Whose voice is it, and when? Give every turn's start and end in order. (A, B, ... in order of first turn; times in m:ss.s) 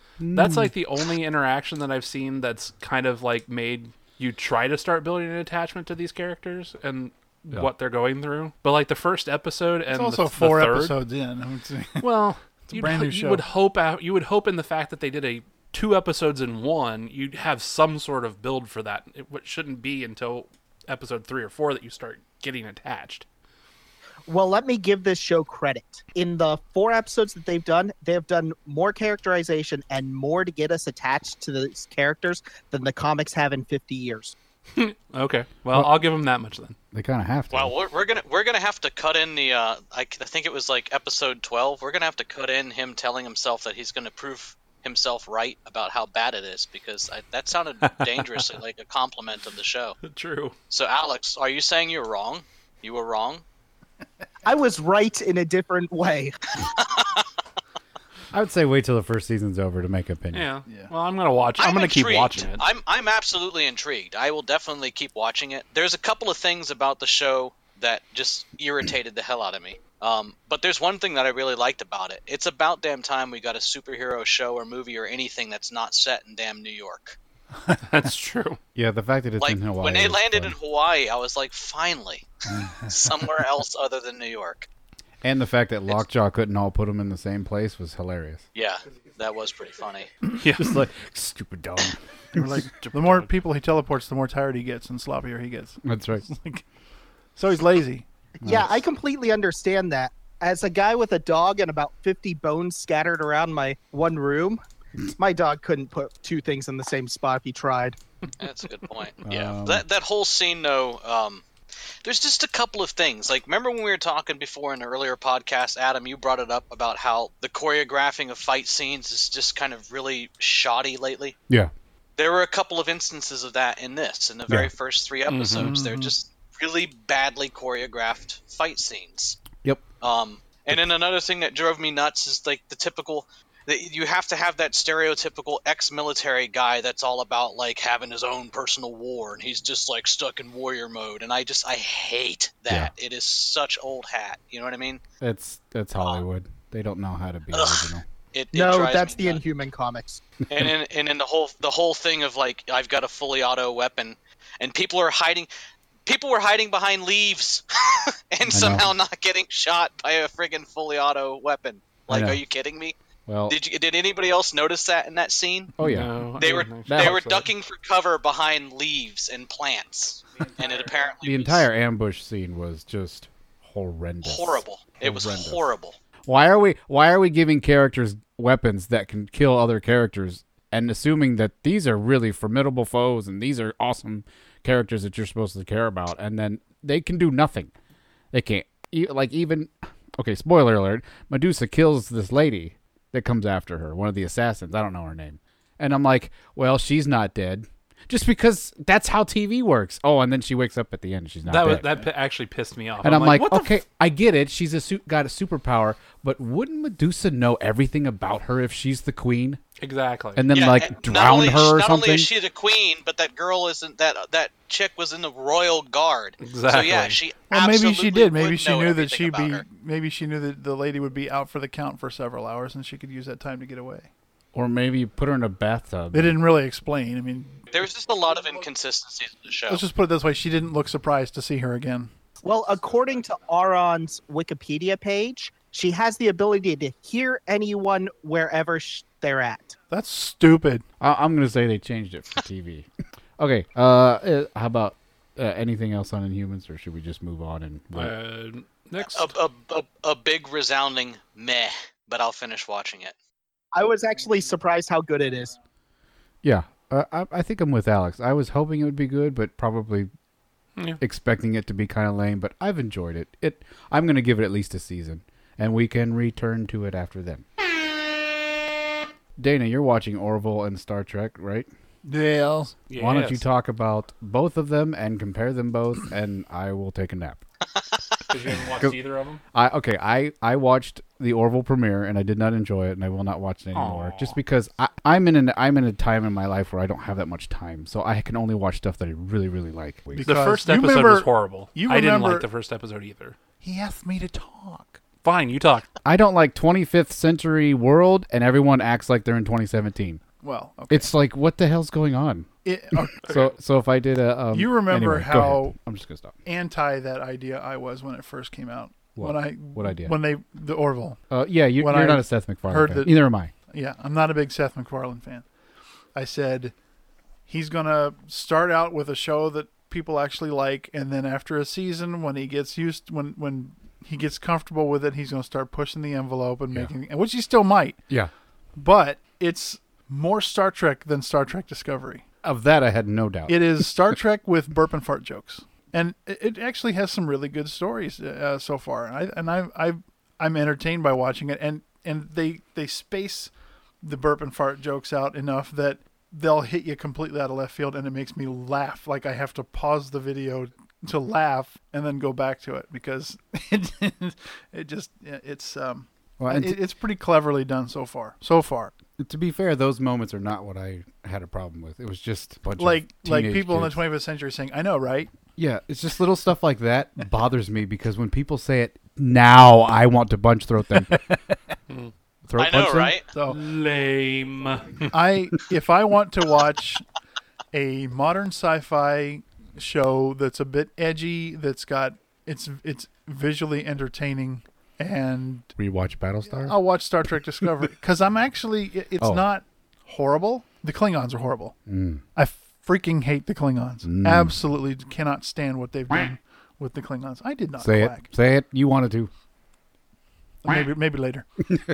0:00.2-0:00.7 A
0:00.3-0:11.0 B
0:09.9-0:12.1 C
0:12.0-0:23.2 B
0:12.7-0:13.4 C
0:24.3-0:34.3 D
0:34.7-0:36.8 B
0:36.9-0:37.7 A
0:37.5-0:50.0 E
0:47.8-0:48.4 B
0:50.0-0:50.5 B
0:50.7-0:53.4 E
0:54.4-0:56.3 D
0:56.7-0:57.3 E
0:58.3-1:00.5 A
1:00.3-1:02.7 B
1:00.7-1:00.9 C
1:01.6-1:17.2 E
1:17.8-1:18.6 B
1:18.7-1:20.6 A
1:19.4-1:24.7 E
1:25.2-1:28.4 A
1:28.5-1:30.1 E
1:30.4-1:30.8 B
1:30.6-1:32.4 A
1:32.3-1:36.6 C
1:32.6-1:33.3 B
1:35.8-1:36.2 A
1:37.4-1:38.0 C
1:38.4-1:44.6 D
1:38.4-1:38.8 A
1:45.1-1:48.0 D
1:48.4-1:51.4 E
1:49.2-1:49.8 A
1:52.0-2:01.4 E
2:02.2-2:09.4 E
2:05.3-2:05.7 B
2:05.6-2:06.1 C
2:10.0-2:25.0 E
2:25.2-2:28.0 A
2:27.5-2:29.4 E
2:28.5-2:30.2 D
2:30.5-2:35.5 E
2:36.0-2:42.9 E
2:38.5-2:38.9 A
2:42.1-2:42.4 A
2:43.3-2:43.6 A
2:43.5-2:45.7 E
2:45.8-2:47.2 A
2:45.8-2:47.5 B
2:46.4-2:51.6 E
2:51.2-2:55.6 A
2:54.2-2:56.0 E
2:56.2-3:07.7 A
3:08.3-3:21.9 A
3:21.4-3:23.7 B
3:23.0-3:29.6 A
3:29.8-3:30.5 B
3:30.3-3:32.3 A
3:30.5-3:39.6 E
3:36.4-3:37.2 B
3:37.5-3:44.1 C
3:44.5-3:46.3 A
3:46.1-3:47.6 C
3:47.7-3:49.8 E
3:49.7-3:52.1 C
3:52.4-3:59.8 D
3:59.9-4:00.8 C
4:01.0-4:08.1 A
4:07.9-4:09.3 B
4:09.0-4:13.1 E
4:13.7-4:15.5 D
4:16.4-4:20.1 A
4:21.0-4:27.4 A
4:29.4-4:31.7 A
4:32.0-4:32.8 C
4:32.9-4:33.4 B
4:32.9-4:37.4 A
4:38.3-4:39.4 B
4:39.5-4:50.4 A
4:43.7-4:44.4 B
4:50.2-4:52.5 C
4:50.2-4:53.4 B
4:53.6-4:55.0 C
4:55.2-4:55.9 B
4:56.0-5:00.2 A
5:00.4-5:01.1 C
5:00.9-5:02.5 A
5:02.6-5:03.2 C
5:03.1-5:06.3 A
5:03.2-5:03.5 B
5:04.5-5:05.7 C
5:06.4-5:11.2 C
5:09.2-5:10.1 A
5:11.3-5:13.5 A
5:11.8-5:13.1 C
5:13.7-5:15.4 C
5:16.1-5:16.7 C
5:17.5-5:28.0 C
5:28.8-5:32.2 C
5:32.4-5:33.8 A
5:33.5-5:58.9 C
5:56.4-5:56.8 A
5:59.2-6:04.0 A
6:02.8-6:05.3 C
6:05.6-6:11.2 A
6:11.1-6:11.5 C
6:12.5-6:13.2 A
6:12.6-6:13.3 E
6:13.3-6:13.6 C
6:13.4-6:15.1 B
6:15.1-6:17.0 C
6:17.7-6:25.7 C
6:25.8-6:26.8 A
6:26.6-6:31.8 C
6:29.2-6:29.4 A
6:31.9-6:32.2 A
6:32.3-6:38.3 C
6:34.0-6:34.5 A
6:37.8-6:39.3 A
6:40.6-6:41.4 C